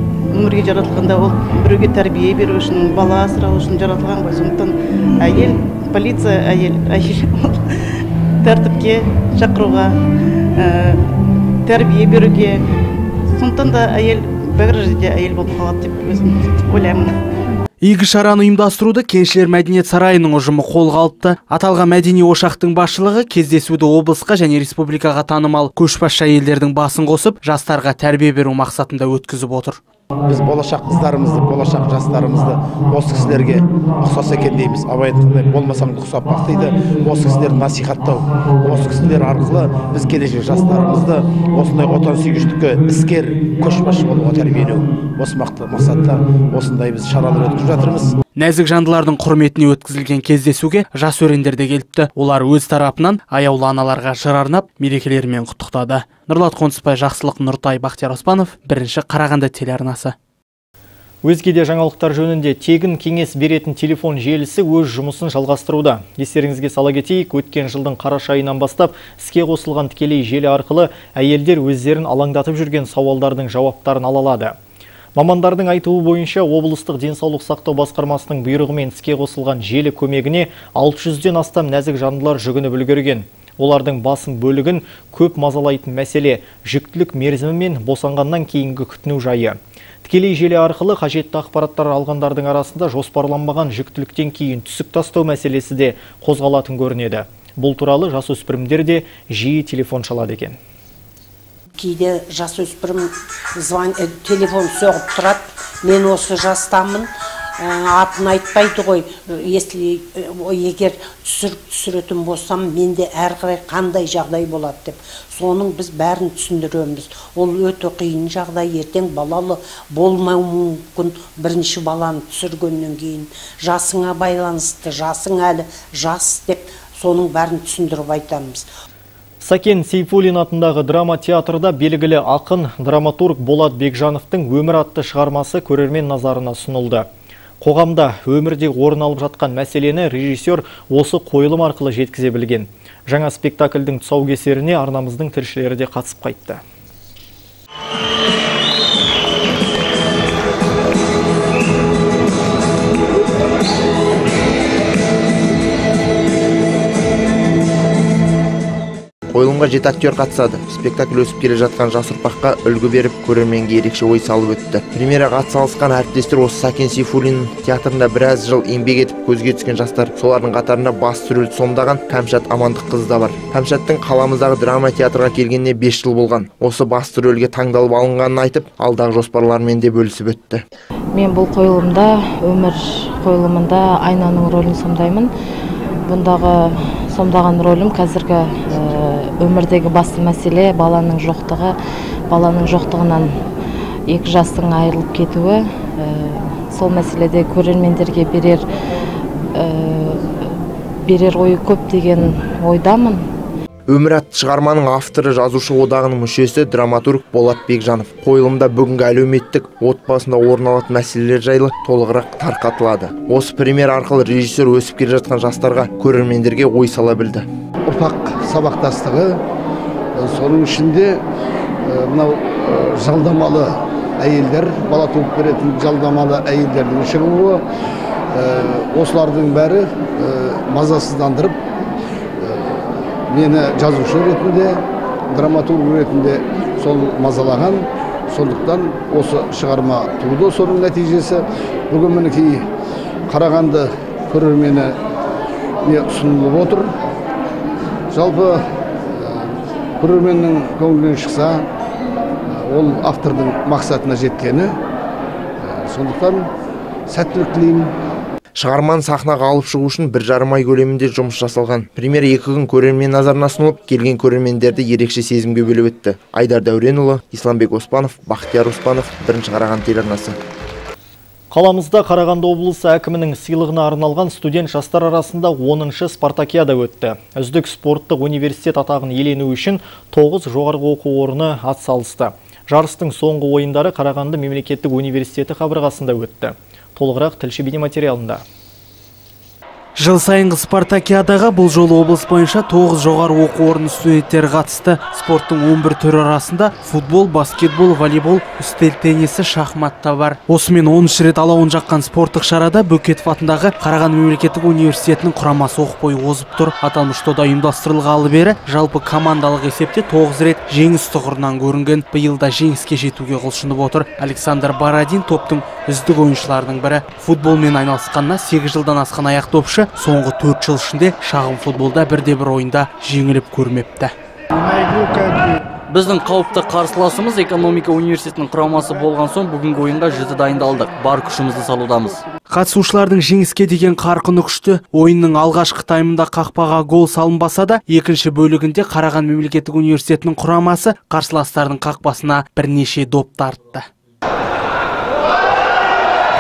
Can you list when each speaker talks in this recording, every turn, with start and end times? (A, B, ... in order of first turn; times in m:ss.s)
0:00.4-0:04.7 A
0:05.3-0:07.2 A
0:08.5-0:09.8 A
0:11.7-0:12.5 A
0:13.4-0:17.1 A
0:17.8-0:29.8 B
0:30.3-0:48.2 C
0:48.4-1:00.1 B
1:01.2-1:14.6 D
1:15.2-1:40.6 D
1:41.8-2:08.7 E
2:09.4-2:17.1 D
2:17.6-2:26.6 D
2:39.3-3:00.6 F
3:01.1-3:05.3 G
3:06.0-3:11.8 G
3:12.3-3:13.4 G
3:14.1-3:18.6 G
3:19.5-3:20.2 G
3:21.0-3:23.3 G
3:23.9-3:37.5 F
3:37.9-3:39.3 H
3:40.2-3:41.2 H
3:41.9-3:47.6 H
3:48.3-3:51.6 H
3:52.4-3:54.8 H
3:55.3-4:02.6 H
4:03.3-4:04.9 H
4:05.9-4:06.9 H
4:08.1-4:08.6 H
4:09.2-4:09.5 H
4:10.0-4:11.6 H
4:12.5-4:14.7 H
4:15.6-4:16.4 H
4:17.1-4:17.9 H
4:18.6-4:30.4 F
4:31.5-4:48.4 D
4:50.0-5:24.1 B
5:25.9-5:32.2 I
5:32.5-5:43.9 B